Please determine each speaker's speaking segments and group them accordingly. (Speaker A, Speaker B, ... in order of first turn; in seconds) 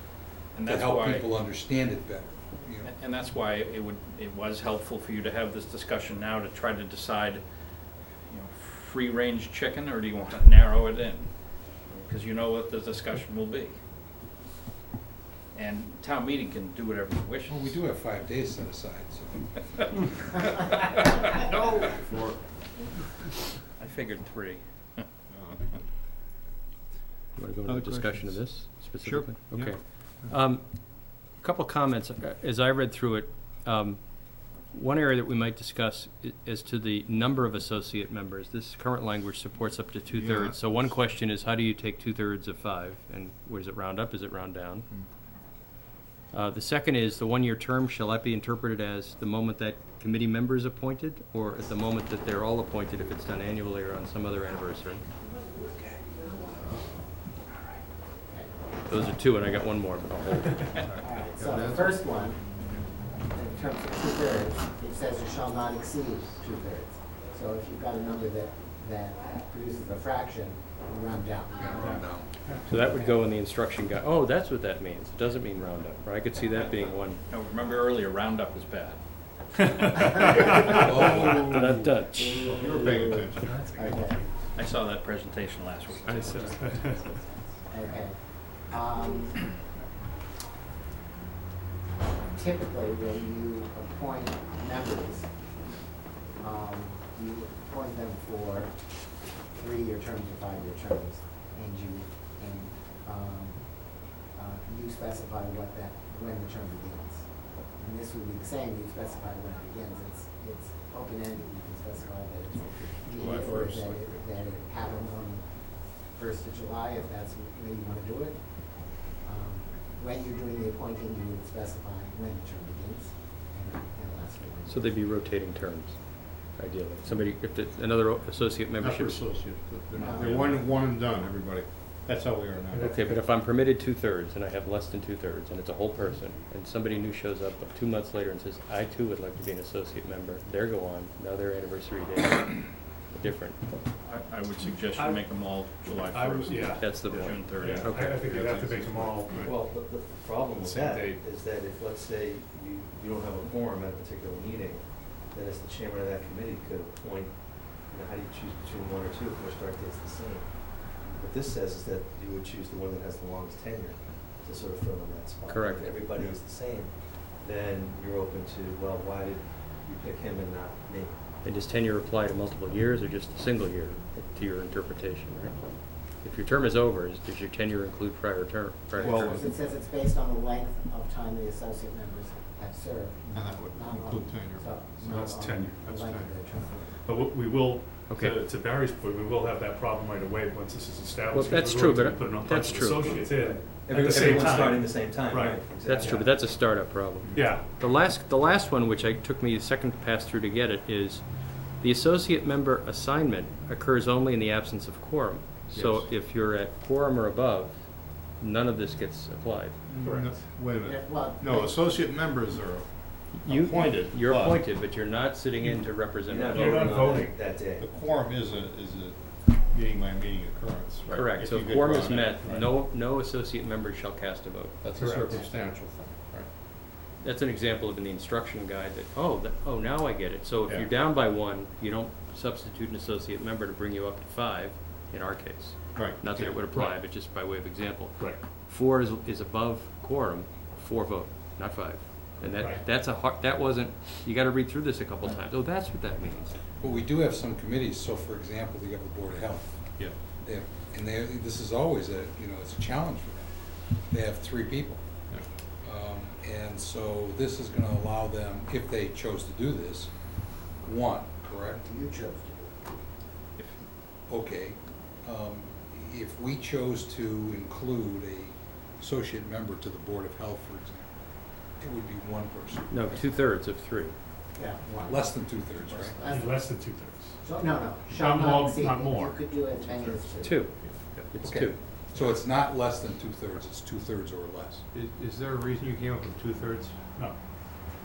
Speaker A: 0.6-1.2, 2.9-7.4, 8.3-13.8, 15.5-17.7, 23.8-25.1, 77.3-79.0, 84.5-86.5, 143.9-147.8, 263.6-263.8
Speaker B: 0.7-2.9, 17.5-20.4, 71.6-72.5, 80.1-81.6, 246.8-249.8, 250.4-255.0, 255.8-260.1, 260.8-261.8, 264.3-271.1, 271.8-273.2, 275.0-276.2, 281.4-284.8
Speaker C: 21.5-22.4, 25.3-25.7, 27.6-30.3, 40.1-40.9, 60.8-62.0, 81.2-84.1, 112.5-114.4, 128.8-133.1, 148.2-149.5, 179.0-179.6, 183.3-185.0, 185.9-186.5, 205.7-206.1, 209.9-214.8, 217.8-222.7, 224.8-226.5, 230.7-230.9, 235.9-236.6, 284.9-286.9
Speaker D: 27.4-44.9, 46.3-55.0, 58.9-60.8, 72.7-77.2, 81.4-82.5, 124.7-129.5, 132.8-143.8, 146.8-148.3, 165.5-166.2, 171.4-179.3, 188.1-188.4, 191.3-193.3, 195.8-201.2, 201.8-209.8, 213.3-216.9, 221.1-224.8, 227.2-246.6, 272.9-274.1, 280.4-280.7, 281.3-281.8
Speaker E: 58.3-59.1, 61.0-62.4, 63.3-72.0, 72.7-73.2, 80.8-81.6, 82.1-84.5, 86.0-89.6, 92.2-95.3, 96.4-98.7, 99.5-125.0, 130.0-130.6, 178.9-187.0, 210.7-211.9, 261.7-262.7, 274.6-276.7, 277.4-280.6
Speaker F: 79.6-80.7, 86.0-87.0, 132.7-133.1, 144.9-145.3, 146.1-146.9, 147.6-149.5, 150.6-151.2, 185.0-186.0, 187.1-196.2, 197.3-197.7, 210.0-210.3, 216.5-217.3, 225.0-225.4, 236.7-237.0, 242.5-242.8, 276.2-277.4, 278.1-279.5
Speaker G: 149.4-171.2, 193.0-196.6, 216.2-217.9